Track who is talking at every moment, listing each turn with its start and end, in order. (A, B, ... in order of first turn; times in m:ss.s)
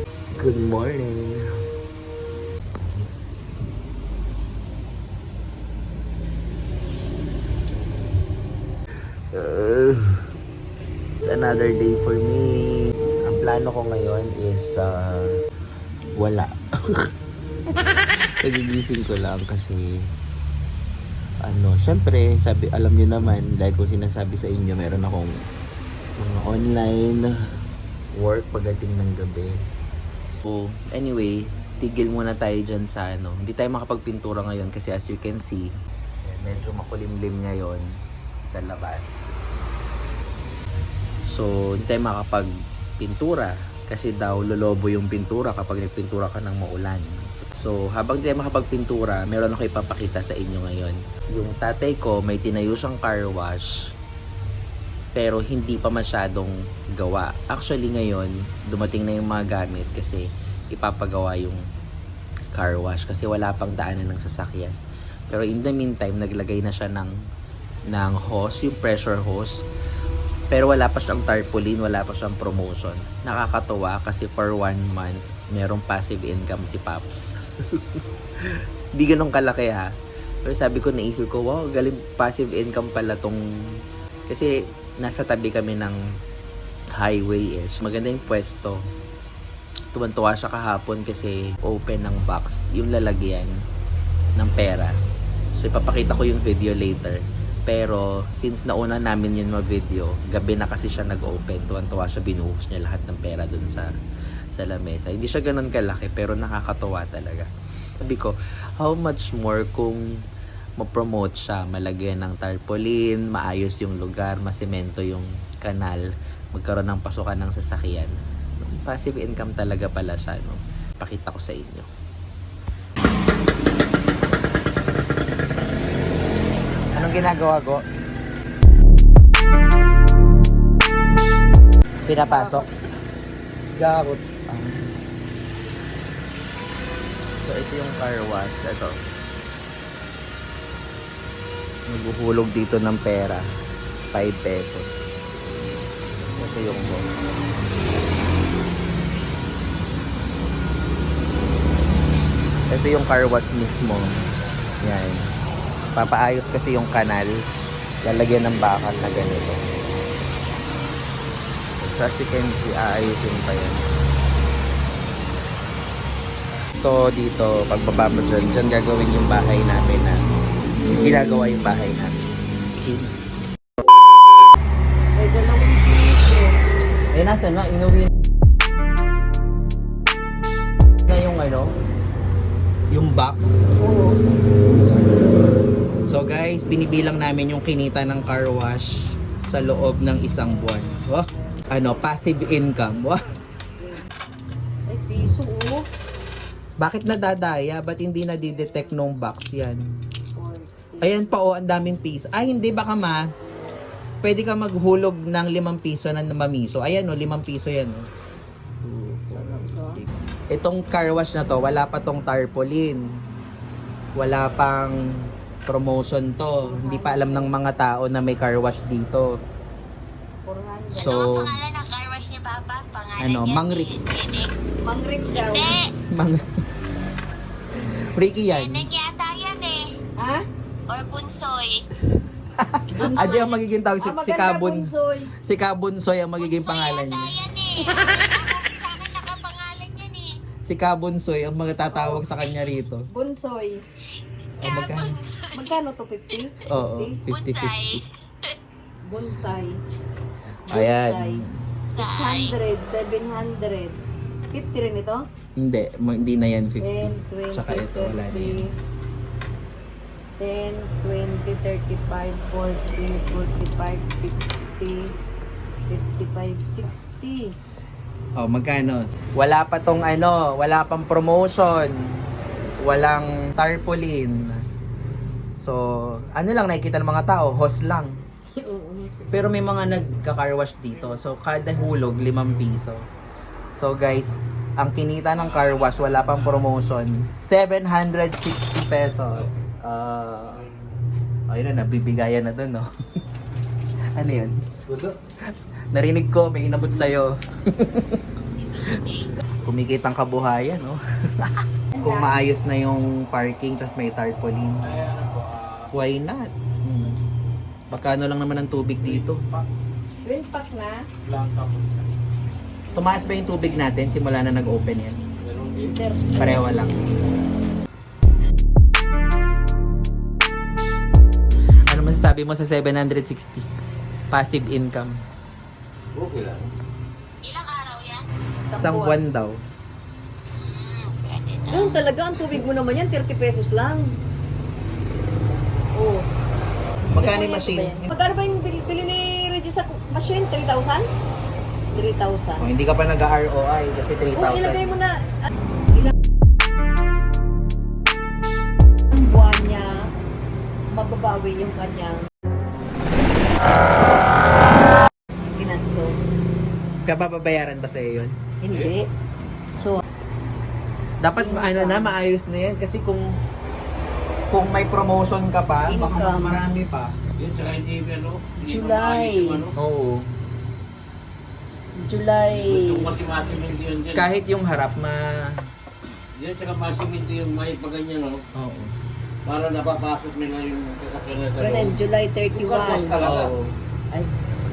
0:00.3-0:01.4 A
0:09.3-0:10.1 A
0:11.2-0:15.3 A
0:16.2-0:17.0 A
0:17.7-0:20.0 A
0:21.4-0:25.3 A
0:26.2-0:27.3 A
0:28.2-0:29.6 A
0:30.4-0:35.7 A
0:36.2-0:37.8 A
0:38.5-0:39.1 A
0:41.3-0:53.7 A
0:55.2-1:01.6 A
1:02.6-1:04.8 A
1:05.3-1:07.1 A
1:07.9-1:09.5 A
1:10.5-1:19.9 A
1:20.4-1:23.4 A
1:24.3-1:26.0 A
1:27.0-1:28.8 A
1:29.9-1:33.5 A
1:34.4-1:34.9 A
1:35.6-1:43.9 A
1:44.5-1:47.5 A
1:48.0-1:50.0 A
1:50.8-2:01.9 A
2:06.9-2:07.8 A
2:12.1-2:12.7 A
2:12.2-2:12.7 B
2:13.8-2:15.0 A
2:17.3-2:19.0 A
2:21.9-2:23.4 A
2:24.1-2:25.0 A
2:26.2-2:27.3 A
2:32.7-2:34.2 A
2:34.8-2:35.2 A
2:36.0-2:37.3 A
2:38.0-2:39.6 A
2:41.8-2:43.8 A
2:46.8-2:50.2 A
2:50.8-2:52.2 A
2:52.8-2:53.1 A
2:55.2-2:56.6 B
2:57.1-2:58.1 A
3:01.1-3:01.7 A
3:02.9-3:03.6 A
3:03.8-3:04.2 B
3:06.1-3:08.9 A
3:09.4-3:13.2 A
3:10.4-3:12.0 B
3:13.8-3:14.1 B
3:14.9-3:15.9 B
3:16.8-3:19.8 A
3:20.3-3:21.3 B
3:21.0-3:23.2 A
3:24.2-3:28.0 A
3:28.8-3:33.0 A
3:29.3-3:30.0 B
3:34.2-3:35.0 A
3:35.7-3:39.3 A
3:36.6-3:37.6 B
3:40.4-3:41.2 B
3:40.9-3:41.5 A
3:41.0-3:44.5 C
3:43.2-3:43.9 A
3:44.8-3:45.7 B
3:45.3-3:45.8 C
3:46.1-3:46.5 A
3:48.2-3:48.9 A
3:48.5-3:49.8 C
3:50.2-3:50.4 B
3:50.9-3:51.8 C
3:52.6-3:54.9 A
3:52.9-3:53.4 B
3:53.2-3:53.5 C
3:54.0-3:55.3 B
3:55.4-3:57.4 A
3:56.4-4:00.3 C
4:00.6-4:03.1 A
4:01.9-4:02.2 B
4:03.1-4:03.8 B
4:04.6-4:05.7 C
4:04.6-4:05.2 A
4:05.5-4:07.2 B
4:06.7-4:08.0 A
4:07.3-4:08.6 C
4:09.1-4:09.8 B
4:10.5-4:11.6 A
4:10.7-4:14.0 B
4:12.0-4:12.5 C
4:14.5-4:15.2 B
4:15.6-4:18.6 A
4:16.8-4:18.7 B
4:20.4-4:25.1 B
4:25.9-4:27.5 B
4:28.4-4:31.9 A
4:32.8-4:34.6 A
4:36.3-4:38.1 A
4:38.6-4:39.2 B
4:39.3-4:43.0 A
4:43.8-4:50.7 A
4:45.4-4:46.7 D
4:49.3-4:49.6 D
4:50.5-4:50.8 D
4:51.5-4:52.8 A
4:54.1-4:54.6 A
4:54.9-4:55.2 D
4:55.9-4:58.2 A
4:58.6-4:59.3 C
4:59.6-5:04.9 A
5:01.9-5:02.4 B
5:04.8-5:05.9 D
5:05.9-5:07.2 A
5:07.9-5:09.4 A
5:09.0-5:09.7 D
5:10.2-5:11.1 B
5:11.2-5:12.1 D
5:12.9-5:15.2 A
5:15.4-5:15.9 D
5:15.9-5:16.7 B
5:16.4-5:17.0 A
5:21.9-5:23.6 A
5:24.3-5:25.2 A
5:26.1-5:26.7 D
5:27.4-5:28.2 C
5:28.6-5:29.2 B
5:28.8-5:29.6 A
5:30.5-5:32.1 C
5:31.7-5:34.1 B
5:35.9-5:36.2 B
5:37.1-5:41.1 B
5:37.1-5:38.1 A
5:41.9-5:42.7 B
5:42.6-5:44.9 A
5:44.3-5:45.2 B
5:49.1-5:50.1 B
5:50.9-5:52.2 B
5:54.1-5:54.4 B
5:55.4-5:56.4 B
5:57.0-5:58.4 A
5:58.6-5:59.1 B
5:59.8-6:00.0 B
6:01.2-6:03.2 A
6:01.3-6:02.2 B
6:04.5-6:07.1 A
6:05.9-6:06.6 B
6:07.4-6:09.8 D
6:08.6-6:09.6 B
6:09.8-6:10.2 A
6:12.0-6:13.1 B
6:12.5-6:14.3 D
6:14.1-6:15.6 A
6:16.4-6:18.4 D
6:18.5-6:18.9 A
6:19.4-6:22.0 D
6:21.6-6:23.2 B
6:22.5-6:23.5 D
6:23.2-6:23.7 A